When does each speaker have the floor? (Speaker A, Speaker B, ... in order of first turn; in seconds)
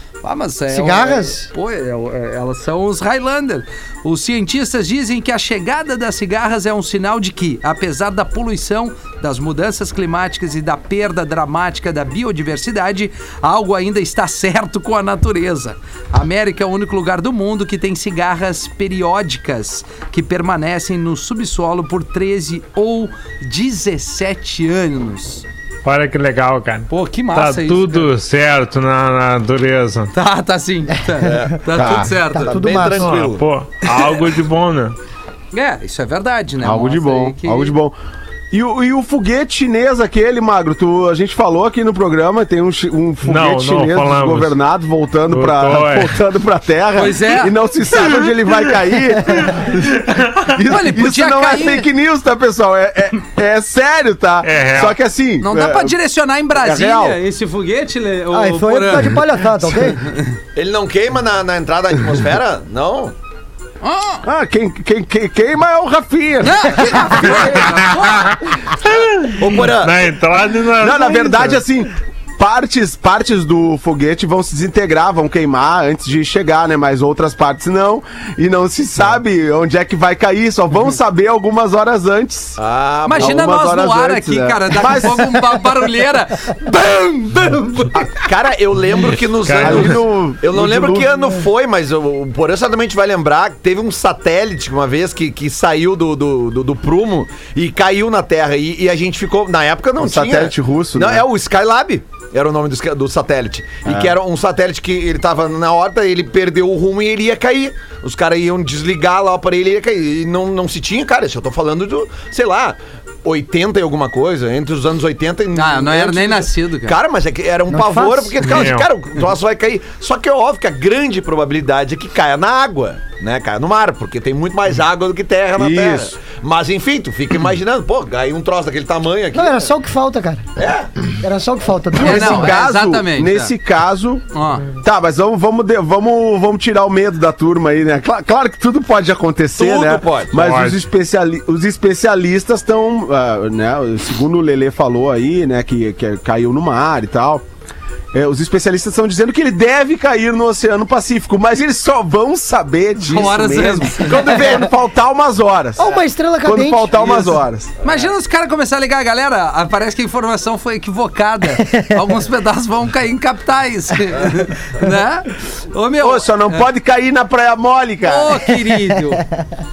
Speaker A: 0.2-25.4, 26.9-28.1, 30.1-32.8, 35.5-37.7, 47.0-47.6, 50.7-51.9, 55.4-60.4, 63.8-64.2, 66.4-68.4, 83.0-88.0, 115.5-117.0, 132.0-133.5, 134.3-134.7, 153.0-154.4, 157.8-166.7, 168.0-169.2
Speaker B: 0.7-1.4, 32.3-33.1, 58.3-60.0, 117.7-118.6, 129.3-130.4, 131.2-132.6, 155.8-157.3
Speaker C: 25.8-30.1, 33.0-35.0, 43.2-44.5, 45.3-46.1, 50.1-50.5, 54.4-54.9, 67.6-68.3, 68.9-71.6, 89.4-90.0, 118.4-118.8, 140.4-140.8
Speaker D: 31.2-33.5, 60.5-63.1, 69.2-70.0, 82.6-83.5, 87.9-129.7, 130.6-130.9, 139.6-140.3
Speaker E: 31.7-32.1, 36.6-37.9, 38.5-56.0, 56.5-57.2, 64.2-67.3, 70.8-82.6, 83.1-85.5, 89.6-91.2, 100.0-101.2, 103.9-104.2, 125.6-126.1, 131.9-147.4, 148.1-157.7, 166.0-168.4